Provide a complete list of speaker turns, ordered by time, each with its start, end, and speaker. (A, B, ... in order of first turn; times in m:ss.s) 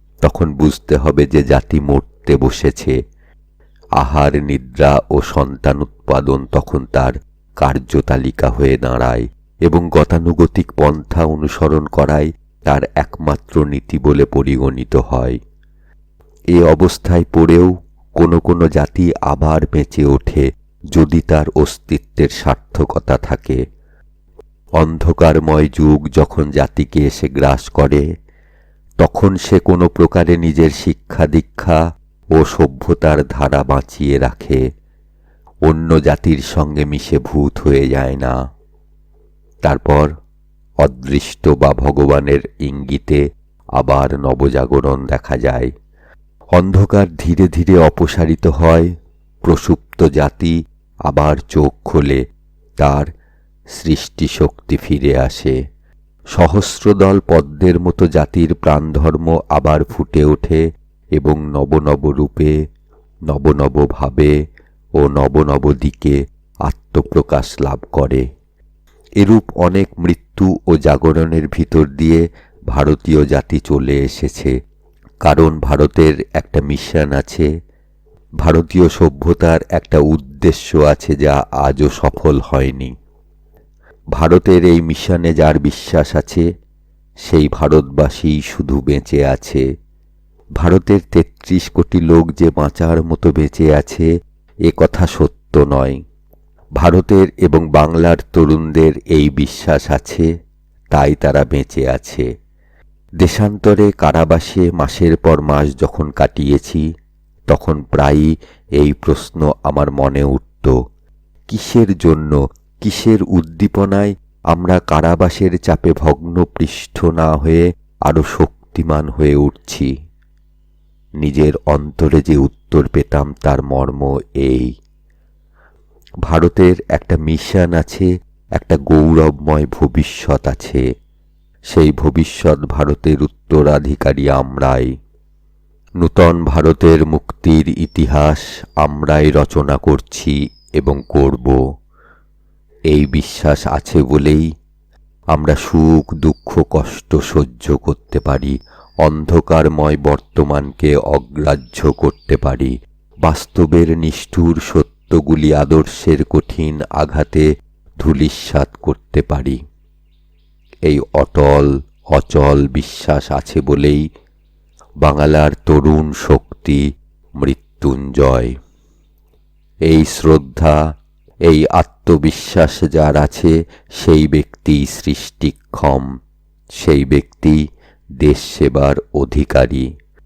0:00.2-0:02.9 A
0:04.0-0:15.4 A
0:16.5-0:23.6 A
0:24.8-0:28.0 A
0:29.0-0:31.8 A
0:32.4-0:34.6 A
0:35.6-0:38.4 A
0:39.6-0:40.1 A
0:40.8-0:43.2 A
0:43.8-0:45.7 A
0:46.6-0:48.9 A
0:49.4-0:50.6 A
0:51.1-0:52.2 A
0:52.8-0:53.1 A
0:53.8-0:55.6 A
0:56.4-1:00.6 A
1:01.2-1:02.5 A
1:03.3-1:04.3 A
1:05.0-1:06.2 A
1:06.7-1:08.2 A
1:09.2-1:14.5 A
1:15.2-1:17.5 A
1:18.4-1:22.9 A
1:24.2-1:26.4 A
1:27.2-1:29.6 A
1:30.6-1:34.1 A
1:34.7-1:36.0 A
1:36.8-1:40.3 A
1:40.9-1:42.2 A
1:43.2-1:46.8 A
1:47.5-1:50.7 A
1:51.5-1:59.9 A
2:01.2-2:04.7 A
2:06.3-2:10.8 A
2:11.7-2:14.9 A
2:16.0-2:21.6 A
2:22.9-2:24.5 A
2:25.3-2:37.4 A
2:38.0-2:39.6 A
2:40.8-2:44.1 A
2:45.0-2:46.8 A
2:47.4-2:48.5 A
2:49.9-2:50.8 A
2:51.5-2:56.1 A
2:56.8-2:57.6 A
2:58.2-2:59.8 A